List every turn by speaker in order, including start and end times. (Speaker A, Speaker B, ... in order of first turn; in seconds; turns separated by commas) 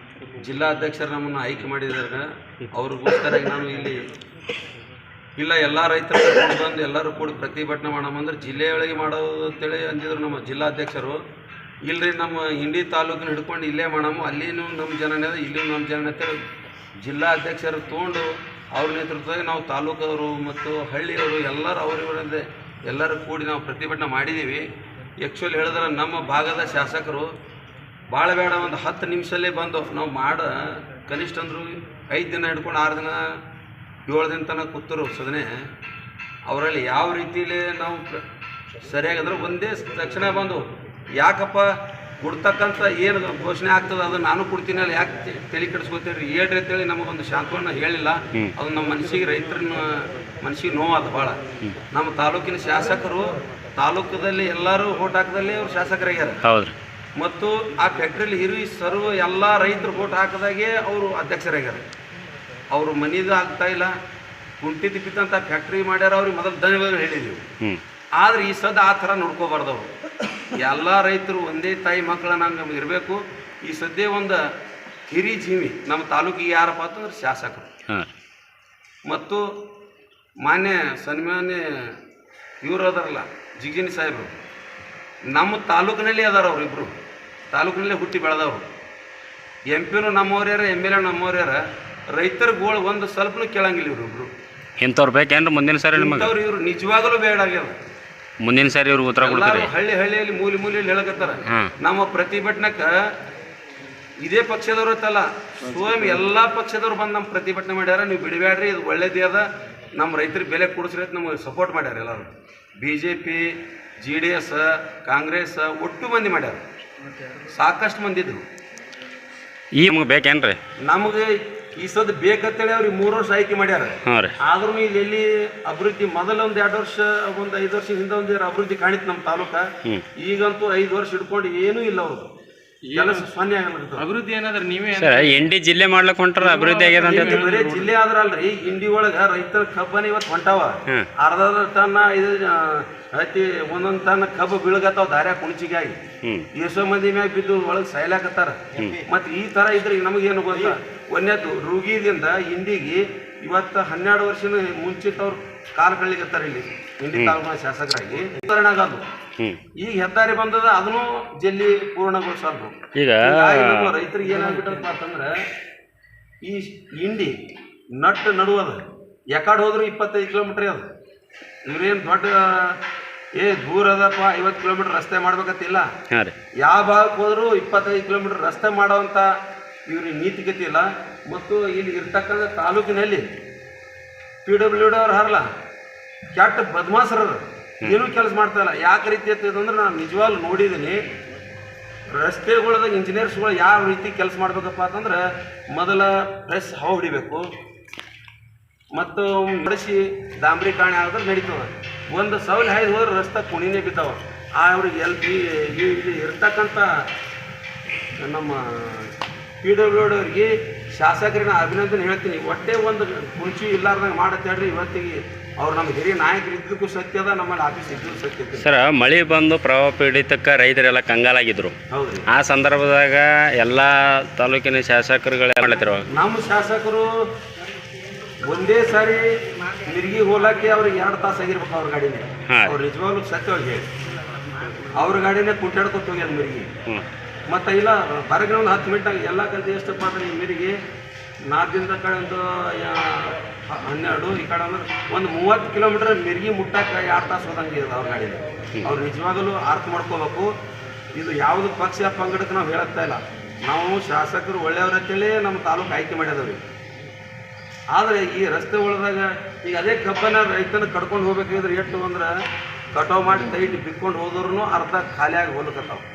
Speaker A: 0.4-4.0, Speaker A: 5.4-11.2, Speaker A: 11.9-16.4, Speaker A: 17.0-24.7, Speaker A: 25.2-27.3, Speaker A: 28.1-33.2, Speaker A: 34.1-35.5, Speaker A: 36.5-38.2, Speaker A: 38.8-41.7, Speaker A: 42.2-51.4, Speaker A: 51.9-56.4, Speaker B: 56.4-56.7, Speaker A: 57.2-61.8, Speaker A: 62.7-63.9, Speaker A: 64.6-67.5, Speaker A: 68.2-69.9, Speaker A: 70.5-74.4, Speaker A: 75.1-77.7, Speaker A: 79.1-79.5, Speaker A: 80.4-82.0, Speaker A: 82.6-84.3, Speaker A: 85.3-86.9, Speaker A: 87.5-88.7, Speaker A: 89.7-91.6, Speaker A: 92.1-94.3, Speaker B: 94.8-96.3, Speaker A: 95.9-97.8, Speaker B: 98.4-99.7, Speaker A: 99.2-102.9, Speaker B: 101.5-101.7, Speaker A: 104.2-116.6, Speaker A: 117.4-118.4, Speaker B: 119.7-120.6, Speaker A: 120.9-129.7, Speaker B: 124.0-124.3, Speaker A: 130.2-132.3, Speaker C: 132.9-133.3, Speaker A: 132.9-134.1, Speaker C: 134.0-135.4, Speaker B: 134.9-137.5, Speaker C: 136.4-137.9, Speaker A: 137.0-146.0, Speaker B: 146.2-146.5, Speaker A: 146.5-159.0, Speaker B: 148.8-149.0, Speaker A: 159.8-165.4, Speaker B: 162.9-163.9, Speaker A: 166.4-167.4, Speaker A: 168.0-168.8, Speaker A: 169.3-170.9, Speaker A: 171.7-172.8, Speaker A: 173.4-175.9, Speaker A: 176.6-179.3, Speaker A: 179.9-183.3, Speaker A: 184.4-185.5, Speaker A: 186.3-191.0, Speaker A: 192.1-197.5, Speaker A: 198.9-206.9, Speaker A: 208.2-218.7, Speaker B: 218.6-221.8, Speaker A: 221.9-222.3, Speaker B: 222.3-226.1, Speaker A: 226.1-227.1, Speaker A: 228.4-233.9, Speaker B: 232.5-232.8, Speaker A: 234.8-236.7, Speaker A: 237.5-240.8, Speaker A: 241.5-250.5, Speaker A: 251.2-256.6, Speaker A: 257.9-262.3, Speaker A: 262.9-266.1